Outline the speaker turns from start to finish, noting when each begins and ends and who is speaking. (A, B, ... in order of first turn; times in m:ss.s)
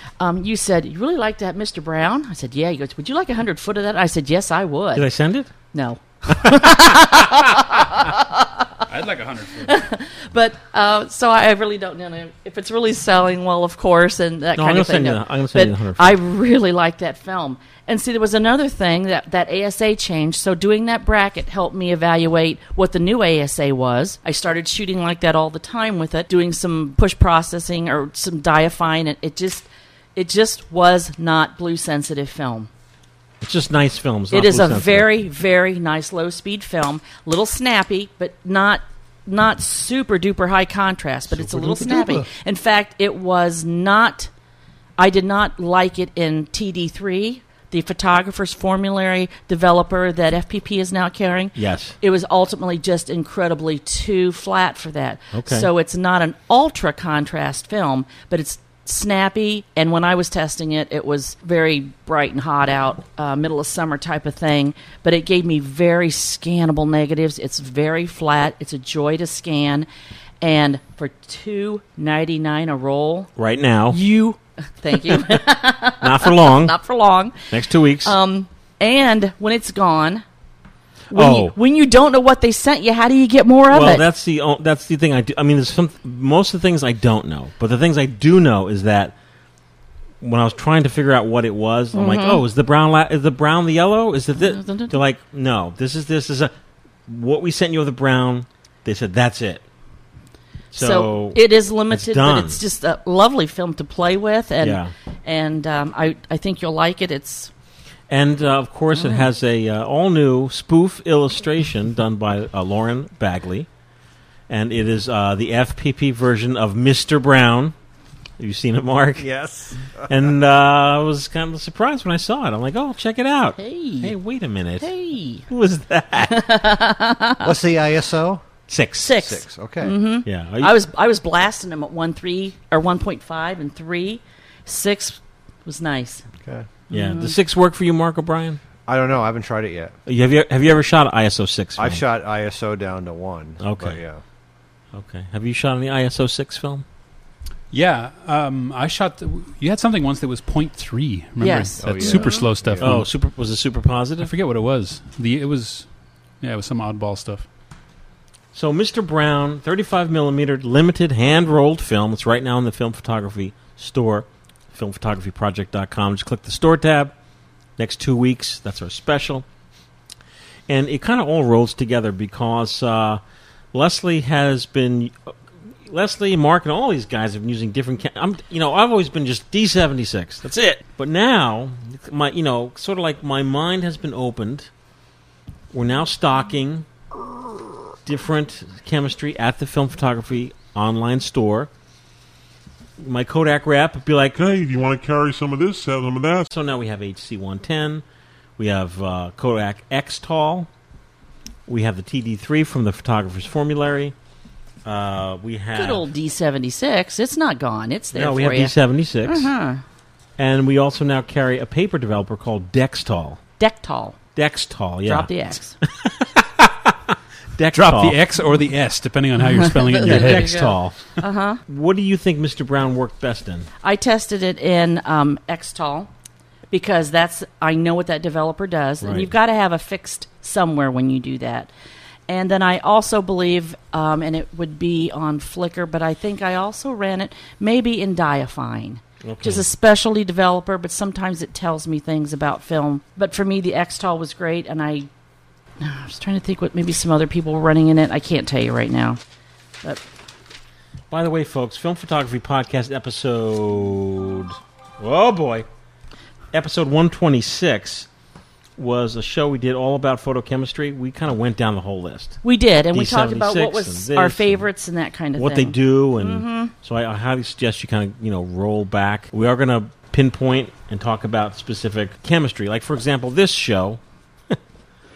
0:00.2-0:05.1 A
0:05.0-0:05.5 B
0:05.7-0:08.7 A
0:08.9-0:09.7 C
0:09.6-0:32.7 A
0:14.6-0:16.2 B
0:33.4-0:35.1 B
0:34.3-0:44.3 A
0:41.3-0:42.2 D
0:45.0-1:09.9 A
0:51.6-0:52.0 B
0:55.3-0:55.7 B
1:10.4-1:13.3 A
1:13.4-1:14.0 B
1:13.9-1:17.5 A
1:15.0-1:15.3 B
1:16.0-1:16.8 B
1:17.5-1:18.1 B
1:18.0-1:20.2 A
1:21.1-1:24.0 A
1:21.1-1:21.6 B
1:23.7-1:29.1 B
1:30.2-1:36.5 B
1:31.9-1:32.4 A
1:34.4-1:35.0 A
1:37.1-1:39.6 B
1:40.7-1:42.6 B
1:40.7-1:47.5 A
1:44.6-1:44.9 B
1:48.1-1:53.7 B
1:48.9-1:49.3 A
1:54.5-1:57.8 B
1:58.4-1:59.3 B
1:59.2-2:00.1 D
2:00.1-2:04.9 B
2:03.6-2:04.1 A
2:04.8-2:05.5 A
2:05.5-2:06.4 B
2:06.3-2:07.5 A
2:07.4-2:08.4 D
2:08.7-2:09.1 B
2:09.0-2:16.3 A
2:09.2-2:10.0 D
2:10.2-2:10.7 B
2:16.4-2:16.7 D
2:16.9-2:18.6 B
2:16.9-2:17.4 A
2:18.9-2:19.9 D
2:20.1-2:22.0 B
2:21.8-2:24.2 D
2:23.6-2:24.0 B
2:24.9-2:26.8 B
2:27.7-2:33.1 C
2:31.4-2:32.5 A
2:31.8-2:33.0 D
2:32.8-2:34.3 B
2:34.3-2:35.9 C
2:36.4-2:37.4 C
2:38.5-2:47.1 B
2:47.8-2:49.4 B
2:50.7-2:53.2 B
2:53.7-2:55.3 B
2:55.9-3:04.7 B
3:05.7-3:06.9 B
3:08.1-3:11.7 B
3:13.0-3:14.4 B
3:14.4-3:16.5 E
3:16.5-3:18.0 B
3:18.6-3:20.7 B
3:21.7-3:24.1 B
3:24.8-3:26.0 B
3:25.8-3:28.7 A
3:28.1-3:29.5 B
3:29.2-3:29.8 A
3:30.4-3:33.4 B
3:33.6-3:34.2 A
3:34.4-3:35.3 B
3:35.1-3:35.8 A
3:35.9-3:38.2 B
3:37.7-3:40.7 C
3:39.8-3:41.6 A
3:40.0-3:41.0 B
3:41.7-3:43.7 B
3:43.8-3:46.1 A
3:46.7-3:51.7 A
3:49.0-3:49.3 B
3:52.3-4:05.1 A
3:59.2-3:59.6 B
4:05.8-4:09.2 A
4:11.1-4:15.7 B
4:16.5-4:18.1 B
4:18.8-4:22.4 B
4:22.4-4:26.7 A
4:22.9-4:24.7 B
4:25.4-4:34.0 B